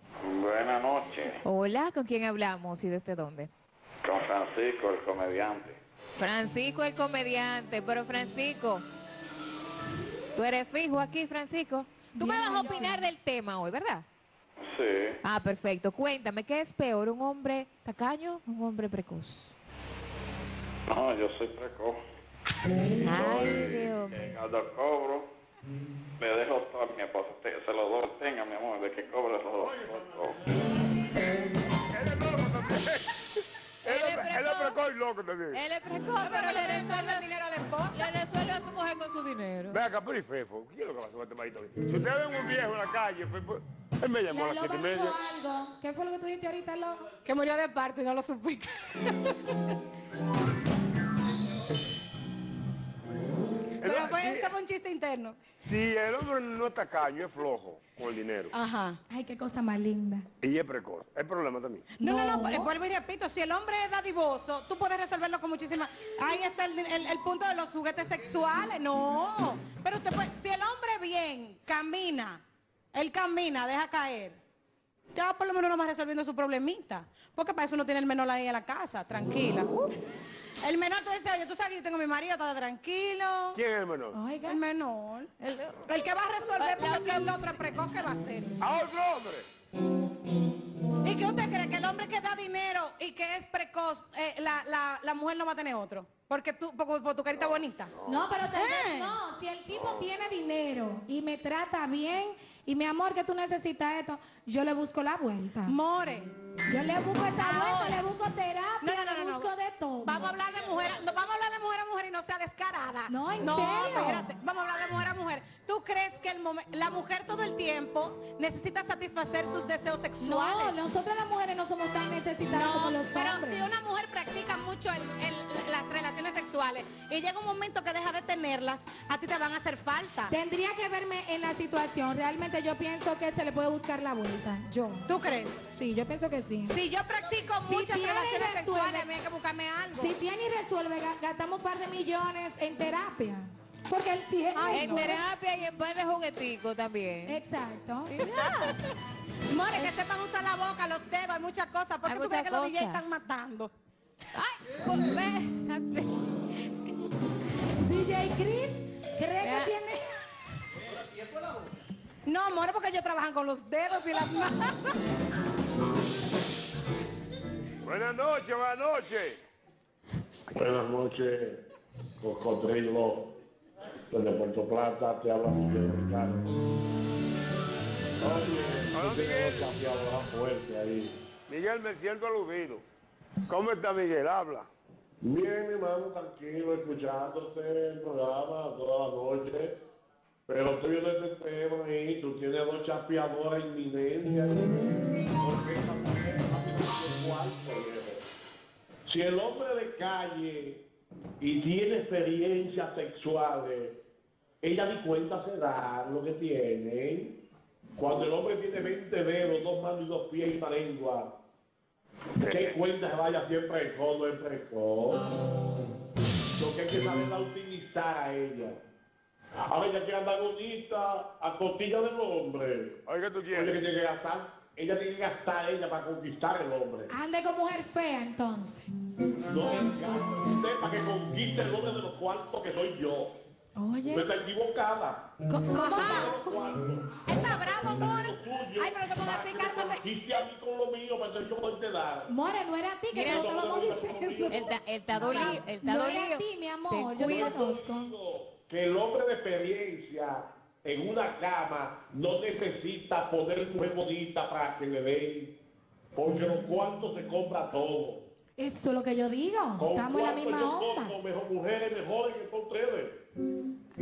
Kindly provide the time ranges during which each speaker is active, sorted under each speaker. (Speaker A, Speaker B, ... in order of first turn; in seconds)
Speaker A: 0.2-1.4, 4.0-5.8, 14.6-15.2, 20.9-22.0, 23.1-25.3, 26.2-30.4
Speaker B: 1.4-3.5, 6.2-8.9, 10.3-14.1, 15.2-19.6, 23.0-24.2, 33.9-34.8, 35.5-37.3, 37.9-39.8, 85.4-85.9, 86.6-87.6, 144.7-147.4, 148.1-148.8, 152.1-153.0, 154.3-156.1, 159.4-159.7, 243.1-243.5, 244.5-247.6
Speaker C: 12.2-13.1, 44.3-47.1, 59.1-60.3, 62.0-62.7, 84.1-84.6, 98.1-105.8, 106.7-110.2, 113.1-114.3, 120.2-123.8, 130.3-136.8, 137.6-139.1, 140.0-145.2, 147.3-148.2, 157.8-160.1, 227.1-228.9, 233.8-234.3, 235.5-236.7, 242.3-248.1, 258.6-261.1
Speaker D: 29.6-30.4, 31.8-35.6, 39.7-45.2, 53.8-54.5, 55.6-58.5, 60.4-61.9, 83.5-84.2, 88.6-89.5, 97.9-98.3, 99.7-100.1, 167.8-169.4, 178.9-179.7, 181.5-182.9, 183.5-184.7, 212.4-212.8, 223.1-223.8
Speaker E: 36.2-38.1, 47.2-49.5, 53.8-55.4, 58.5-59.0, 62.0-72.4, 72.9-74.4, 75.1-79.9, 80.6-83.6, 84.5-85.3, 85.9-88.5, 91.0-97.9, 98.5-99.2, 105.7-106.3, 107.4-108.1, 108.8-109.5, 110.0-120.8, 122.5-130.3, 135.1-135.7, 136.6-140.1, 144.5-145.2, 148.2-148.7, 149.5-153.7, 162.2-164.9, 235.7-236.4, 237.3-240.1
Speaker F: 170.5-171.6, 172.2-173.3, 174.1-176.4, 178.2-181.2, 185.2-189.7, 190.5-194.8, 195.3-198.2, 199.1-200.8, 201.4-204.0, 204.6-207.4, 208.0-211.3, 212.5-215.2, 216.6-218.8, 219.6-223.0, 223.5-227.1, 229.4-233.3, 234.1-235.3, 235.9-242.3, 243.2-244.8, 245.3-245.5, 247.3-255.6, 256.1-258.3, 259.8-263.2